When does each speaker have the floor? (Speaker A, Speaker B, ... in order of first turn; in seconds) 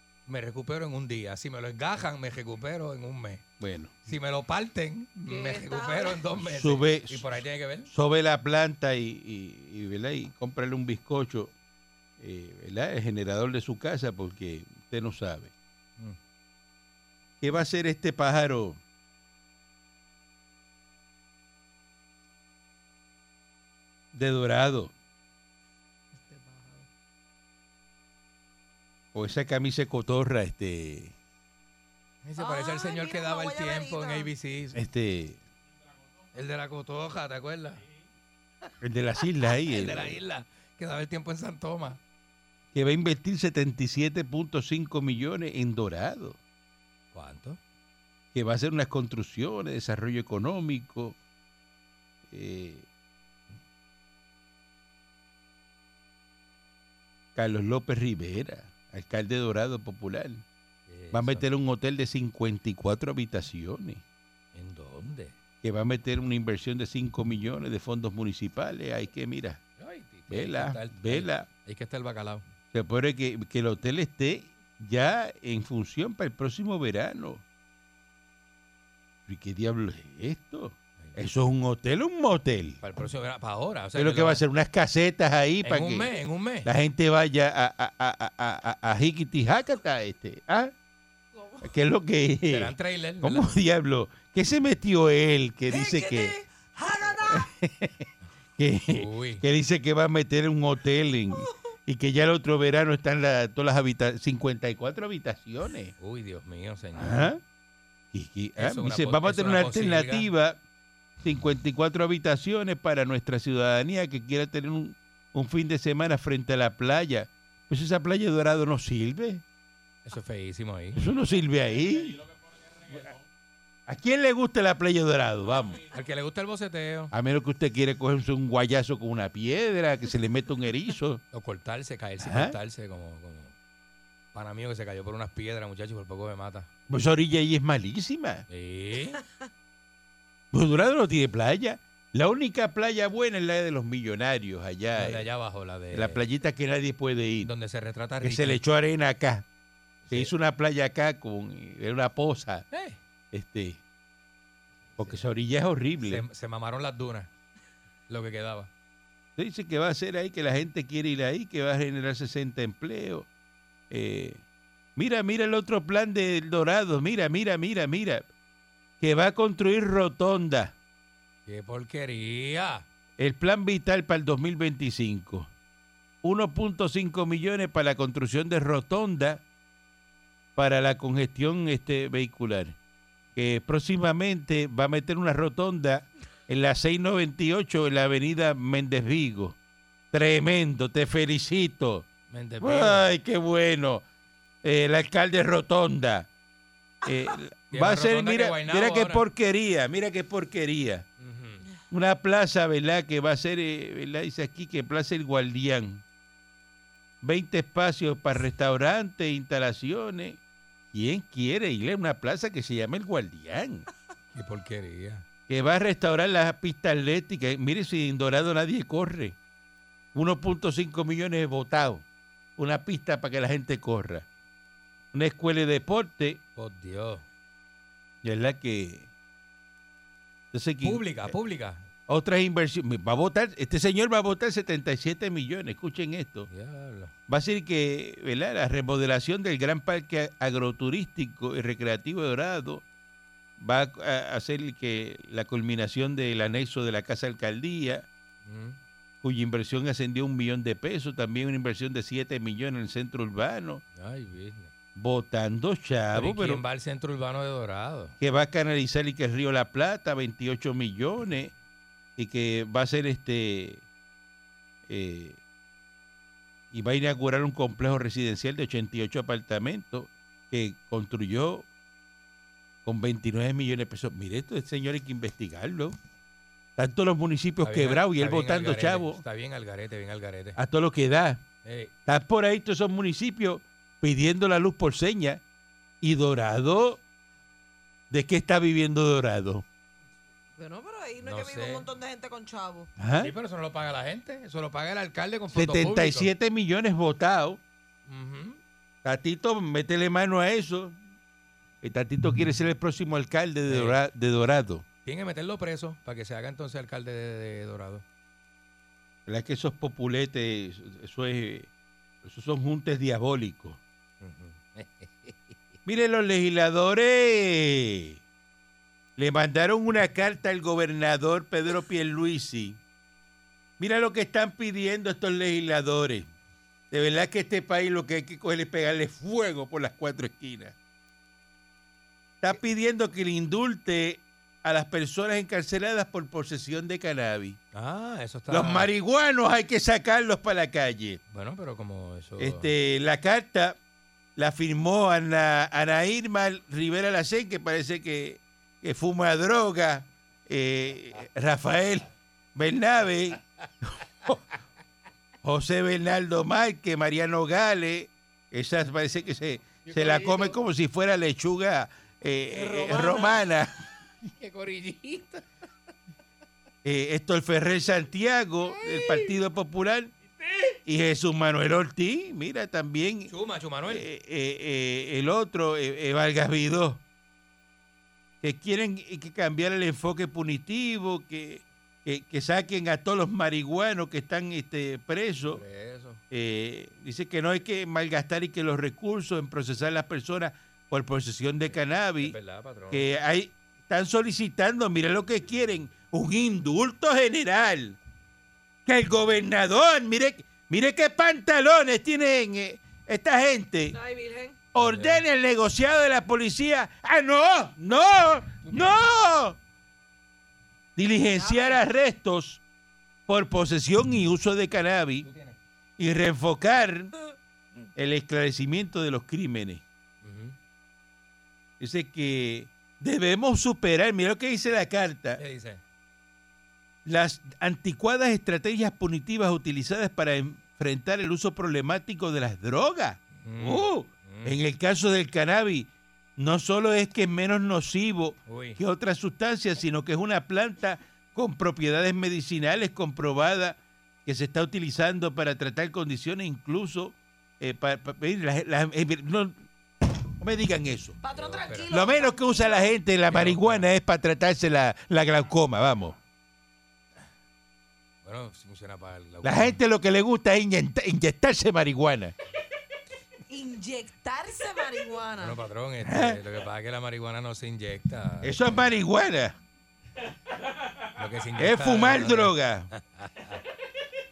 Speaker A: 0.3-3.4, 4.0-7.9, 32.2-34.8, 36.3-37.8, 39.6-42.0, 47.1-47.6, 60.9-61.4, 64.5-65.3, 69.8-72.4, 82.8-84.4, 85.6-86.7, 92.5-93.5, 98.9-99.4, 106.0-107.3, 108.6-110.3, 120.0-121.0, 125.9-127.1, 131.3-133.5, 134.3-136.7, 138.5-139.2, 144.9-146.2, 147.4-148.6, 150.1-150.3, 152.7-153.0, 154.9-155.2, 156.0-157.3, 158.1-158.7, 171.4-172.8, 192.3-193.1, 197.7-199.2, 201.2-201.6, 214.3-215.2, 226.6-227.2, 230.8-231.8, 236.5-237.1, 248.4-248.8, 253.9-254.7, 256.1-258.1, 277.6-280.6, 281.6-281.9, 291.2-291.9, 293.2-296.3, 298.1-298.6, 303.7-304.0, 305.0-308.0, 314.2-315.5, 337.7-338.9, 341.3-342.7, 359.9-360.6, 362.5-363.4, 364.3-365.4, 368.8-369.3, 370.4-370.7, 373.3-374.0, 385.5-386.2, 391.7-393.1, 404.8-405.2, 415.2-415.5, 420.2-420.6, 425.4-425.8, 433.4-434.6, 438.5-438.8, 451.3-451.9, 453.3-453.9, 458.2-459.8, 465.4-468.8, 471.1-473.6
Speaker B: 3.6-3.9, 6.3-7.2, 7.9-11.5, 12.2-15.5, 17.4-18.8, 24.1-24.9, 29.1-31.1, 34.7-35.4, 38.8-40.2, 42.7-46.4, 48.3-51.2, 52.3-52.9, 57.3-60.4, 61.1-64.0, 65.6-69.6, 70.3-71.5, 72.7-77.4, 79.3-82.8, 84.0-86.1, 86.6-90.7, 91.6-96.3, 97.1-105.9, 107.0-107.4, 108.1-110.6, 111.2-119.4, 120.9-122.2, 123.9-125.8, 127.1-131.2, 132.2-132.6, 136.9-138.4, 140.5-145.3, 145.9-147.5, 148.2-149.4, 150.1-152.7, 153.3-153.8, 155.0-156.2, 159.4-163.3, 163.9-164.4, 164.9-168.3, 169.0-170.7, 173.2-175.5, 176.2-179.4, 180.6-182.8, 183.3-189.6, 190.1-192.1, 192.6-194.0, 194.6-196.3, 197.0-201.1, 201.9-206.0, 207.2-210.4, 210.9-213.9, 215.5-219.3, 220.1-222.0, 222.6-224.2, 225.1-226.4, 228.2-229.1, 230.5-231.3, 232.1-236.5, 237.3-242.8, 243.6-248.1, 249.2-253.8, 254.9-256.6, 258.2-261.5, 262.2-263.8, 264.9-265.4, 266.7-271.7, 272.8-275.9, 276.8-279.2, 280.6-281.4, 282.1-285.4, 286.0-287.0, 288.1-289.6, 293.0-293.3, 295.5-297.6, 299.0-301.0, 301.8-304.8, 309.3-311.7, 312.2-313.8, 315.9-318.2, 319.2-322.8, 323.8-326.3, 326.9-330.7, 332.4-337.6, 338.5-341.2, 342.4-343.8, 344.4-354.4, 355.4-363.7, 366.8-370.1, 370.9-373.3, 373.8-377.0, 378.4-385.6, 386.3-392.4, 392.9-398.0, 398.9-403.9, 404.7-409.6, 410.9-412.6, 413.3-415.3, 416.0-417.1, 417.9-419.8, 421.8-425.4, 427.1-451.1, 451.9-456.1, 459.4-462.3, 466.0-466.4, 468.4-469.6, 471.6-472.9
Speaker C: 5.3-6.2, 26.1-26.9, 32.4-34.3, 91.3-91.7, 95.7-97.5, 290.6-292.9, 403.9-404.6, 411.3-411.8, 451.2-452.9, 463.5-465.6